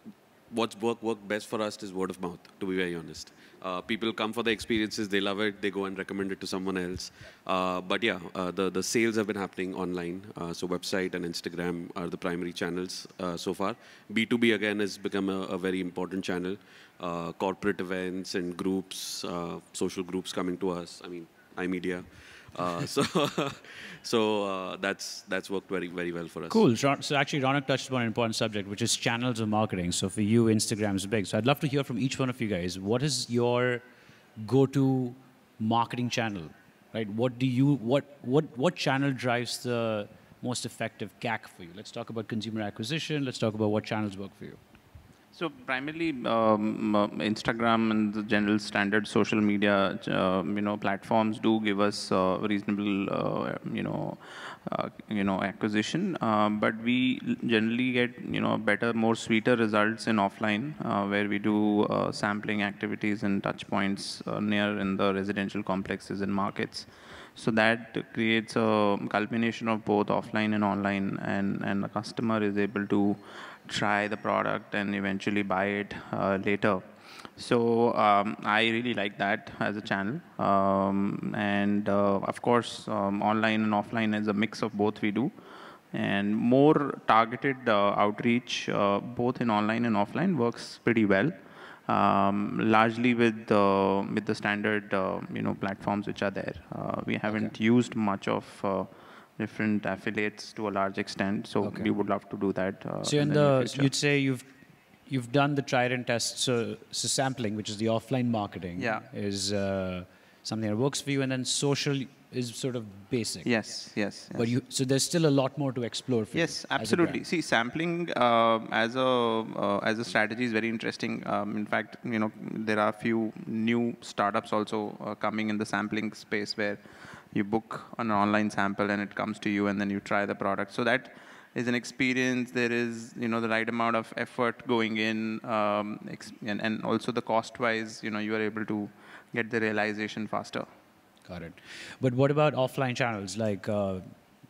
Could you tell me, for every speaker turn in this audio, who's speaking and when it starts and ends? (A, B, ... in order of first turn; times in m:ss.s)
0:00.5-0:26.6 A
0:26.5-0:33.8 B
0:34.4-0:44.6 B
0:45.3-1:16.8 C
1:17.4-1:25.3 C
1:25.9-1:31.3 C
1:31.9-1:43.9 C
1:41.6-1:41.9 B
1:43.0-1:44.5 B
1:45.0-1:53.8 B
1:48.8-1:49.1 C
1:53.4-1:54.5 C
1:54.3-1:57.2 B
1:56.3-2:20.7 C
2:21.2-2:24.2 B